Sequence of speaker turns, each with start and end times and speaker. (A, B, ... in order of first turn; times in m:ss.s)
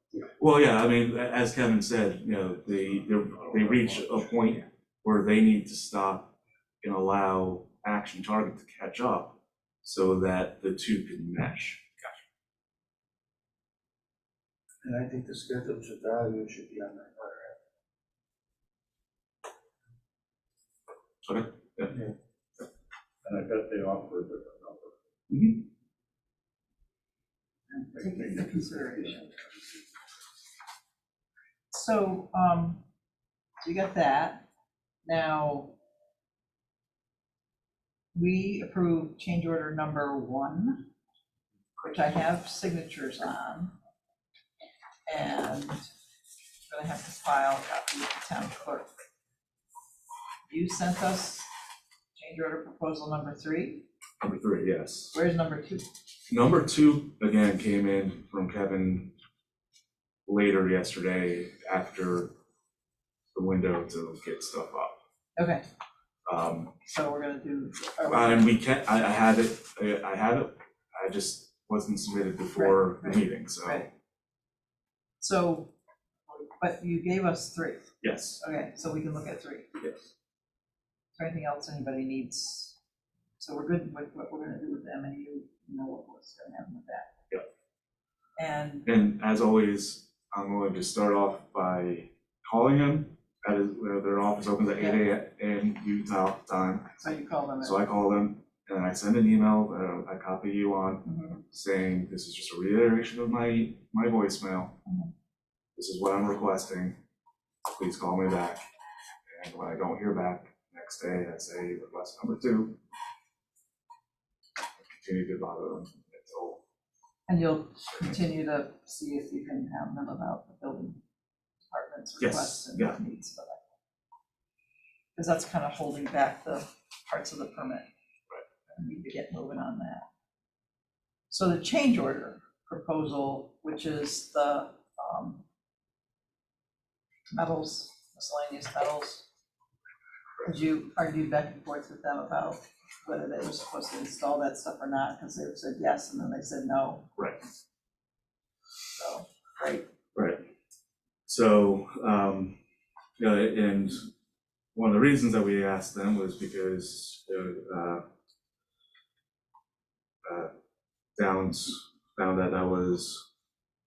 0:00.4-0:11.8 A
0:03.5-0:04.2 B
0:14.8-0:17.5 C
0:21.2-0:22.0 A
0:23.2-0:24.9 B
0:25.3-0:25.6 A
0:27.7-0:29.3 D
0:31.7-0:32.8 D
0:33.6-0:34.4 D
0:35.0-0:35.8 D
0:38.1-0:40.9 D
0:41.8-0:43.8 D
0:45.1-0:45.8 D
0:46.7-0:48.9 D
0:50.5-0:51.5 D
0:52.1-0:53.8 D
0:54.2-0:55.2 A
0:55.1-0:55.9 D
0:56.3-0:59.1 A
1:00.3-1:02.4 A
1:03.3-1:05.0 A
1:05.4-1:05.6 D
1:06.3-1:06.7 A
1:06.8-1:08.5 D
1:08.1-1:13.8 A
1:12.5-1:13.9 D
1:15.2-1:15.7 D
1:16.3-1:19.7 D
1:18.0-1:18.4 A
1:21.2-1:22.8 D
1:23.4-1:27.1 D
1:28.4-1:28.9 D
1:28.9-1:37.0 A
1:34.8-1:35.0 D
1:37.0-1:37.8 D
1:37.6-1:44.8 A
1:41.0-1:41.4 D
1:44.9-1:45.1 D
1:45.8-1:47.0 A
1:47.7-1:48.6 A
1:49.3-1:52.8 A
1:54.9-1:56.6 A
1:57.3-2:01.0 D
2:01.7-2:03.6 D
2:02.2-2:03.0 A
2:05.2-2:07.9 D
2:08.8-2:10.0 D
2:11.3-2:15.4 D
2:17.3-2:19.2 D
2:20.4-2:27.1 D
2:29.0-2:29.8 D
2:30.2-2:30.4 A
2:31.3-2:32.6 A
2:33.2-2:34.1 A
2:34.8-2:38.0 A
2:40.2-2:40.5 A
2:41.2-2:43.2 A